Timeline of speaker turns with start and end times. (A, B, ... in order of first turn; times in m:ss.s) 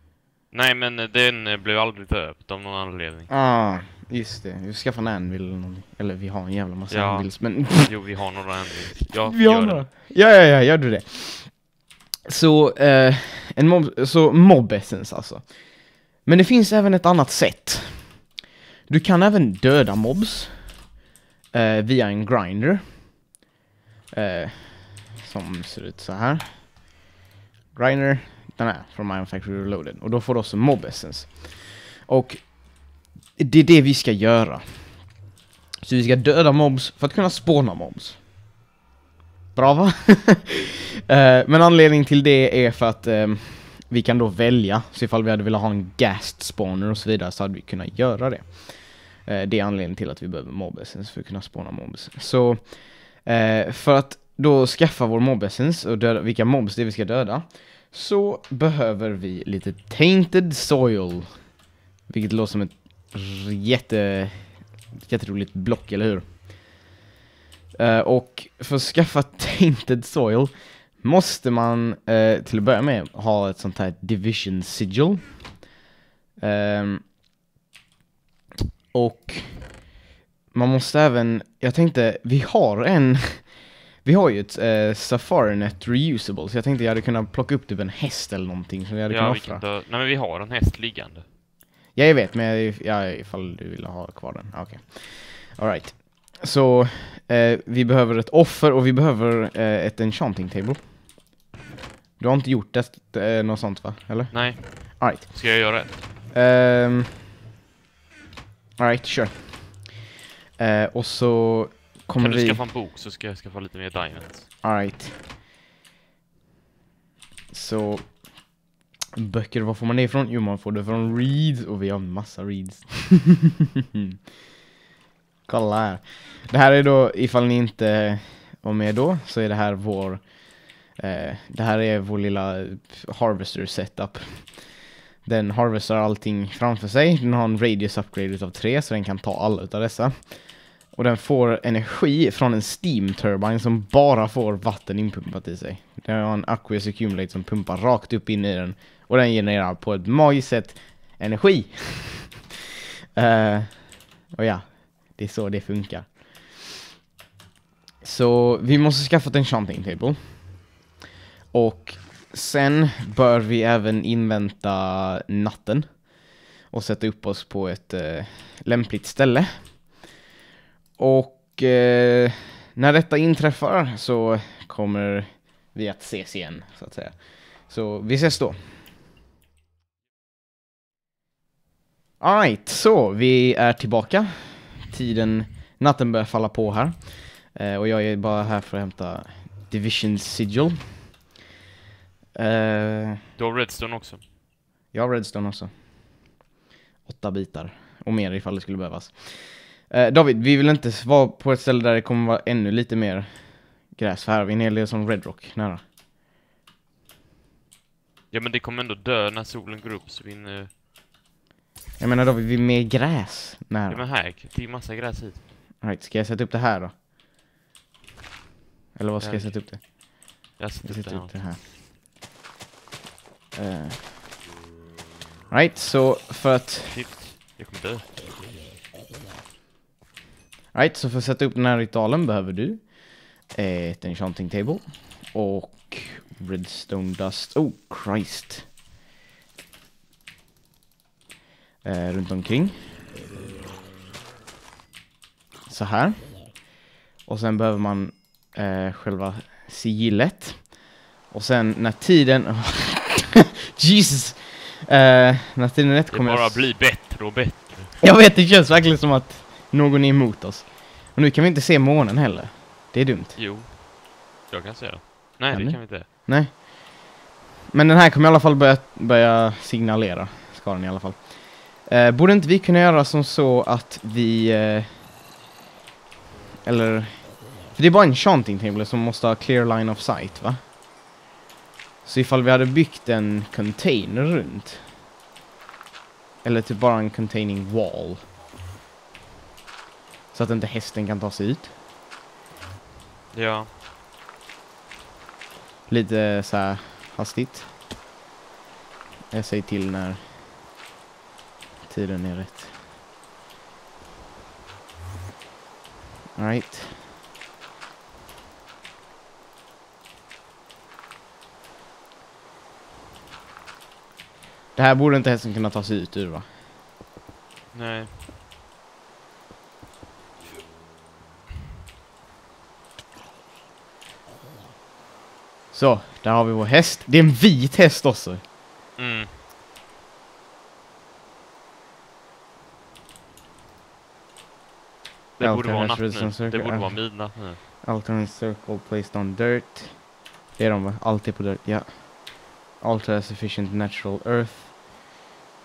0:00.5-0:03.3 A
0:03.3-0:08.2 B
0:06.9-0:09.8 A
0:09.2-0:18.4 B
0:18.9-0:20.9 B
0:21.5-0:23.2 B
0:24.1-0:26.9 B
0:27.8-0:35.2 B
0:35.8-0:38.2 B
0:39.6-1:01.5 B
1:02.1-1:06.5 B
1:07.8-1:15.6 B
1:16.4-1:17.1 B
1:18.9-1:19.9 B
1:20.5-1:29.6 B
1:29.1-1:31.2 A
1:32.0-1:40.8 B
1:42.2-1:45.7 B
1:44.3-1:46.0 A
1:46.3-1:47.2 B
1:48.8-1:50.0 B
1:50.6-1:52.6 B
1:52.2-1:54.5 A
1:54.6-1:55.2 B
1:57.5-1:58.5 B
1:59.2-2:03.4 B
2:05.5-2:32.5 B
2:33.2-2:36.5 B
2:38.0-2:40.7 B
2:41.5-2:50.0 B
2:51.0-2:58.7 B
3:02.2-3:11.1 B
3:12.4-3:13.2 B
3:13.4-3:14.2 A
3:14.9-3:15.7 B
3:17.1-3:25.8 B
3:28.3-3:30.7 A
3:32.0-3:34.1 B
3:33.9-3:35.4 A
3:35.8-3:37.0 B
3:39.0-3:40.1 B
3:39.2-3:39.9 A
3:40.6-3:41.3 A
3:40.8-3:41.6 B
3:43.5-3:44.1 B
3:45.5-3:47.0 B
3:46.9-3:48.1 A
3:50.7-3:58.7 B
4:01.8-4:02.9 B
4:05.7-4:06.7 B
4:07.2-4:16.7 B
4:16.1-4:18.0 A
4:18.0-4:23.4 B
4:23.4-4:26.1 A
4:25.5-4:27.2 B
4:27.7-4:35.1 B
4:36.6-4:40.6 B
4:42.0-4:44.8 B
4:46.4-4:48.3 B
4:50.3-4:51.7 B
4:53.3-4:53.7 A
4:55.9-4:57.7 B
4:59.3-5:00.2 B
5:01.8-5:02.7 B
5:06.4-5:07.0 B
5:14.8-5:16.5 B
5:17.7-5:18.2 A
5:25.7-5:28.4 B
5:29.0-5:29.3 A
5:35.4-5:37.6 A
5:35.4-5:44.7 B